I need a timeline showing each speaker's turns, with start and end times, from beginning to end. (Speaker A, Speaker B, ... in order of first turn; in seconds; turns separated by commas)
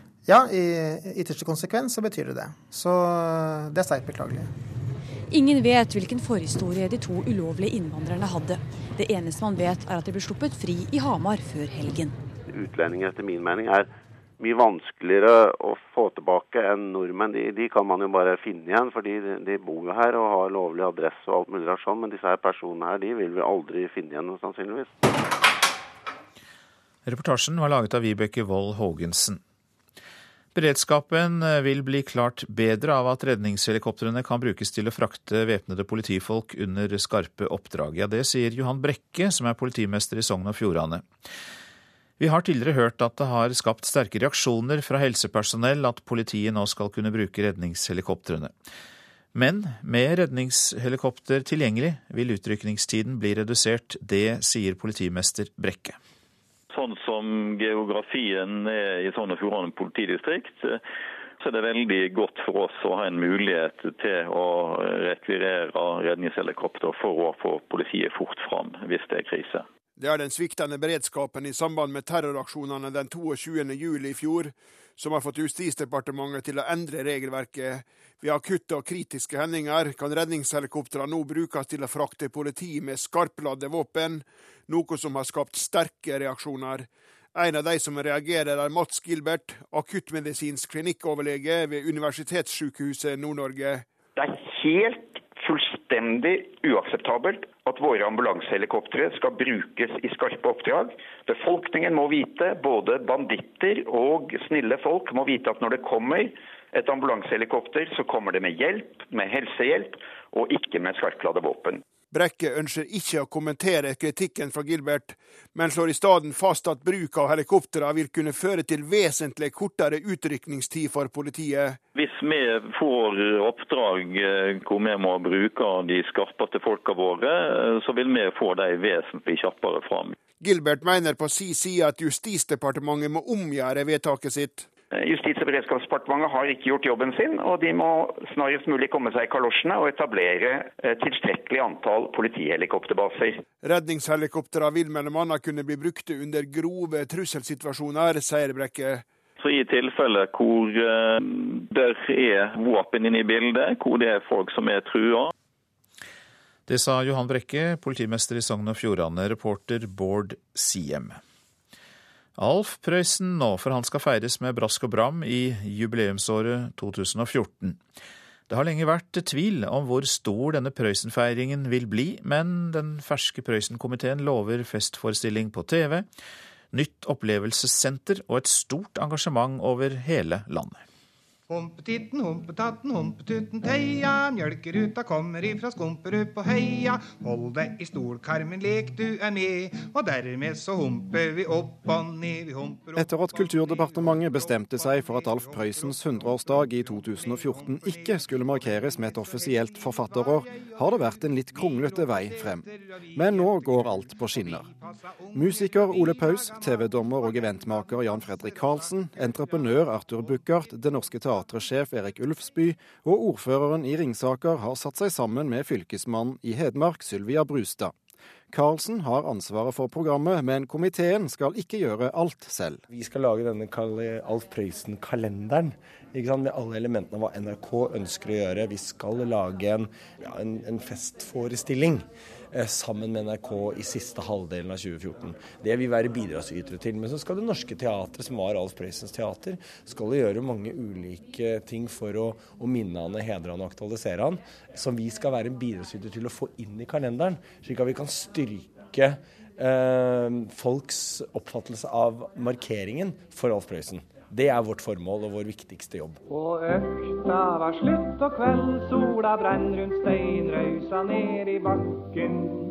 Speaker A: 0.2-4.5, Speaker B: 5.3-12.2, Speaker C: 12.5-13.9, Speaker C: 14.4-25.0, Speaker D: 27.1-29.4, Speaker D: 30.5-41.0, Speaker D: 42.2-48.5, Speaker D: 49.3-56.0, Speaker E: 56.7-60.8, Speaker E: 61.4-69.7, Speaker F: 70.0-93.8, Speaker G: 94.2-111.8, Speaker F: 112.1-121.8, Speaker E: 121.9-130.2, Speaker F: 130.4-134.7, Speaker G: 134.9-143.4, Speaker F: 143.6-149.0, Speaker E: 149.4-155.3, Speaker D: 156.7-161.2, Speaker D: 162.3-167.8, Speaker D: 168.5-176.1, Speaker D: 176.7-180.8, Speaker H: 181.5-192.9, Speaker I: 192.9-204.7, Speaker I: 205.3-217.9, Speaker I: 218.5-222.8, Speaker J: 222.9-256.2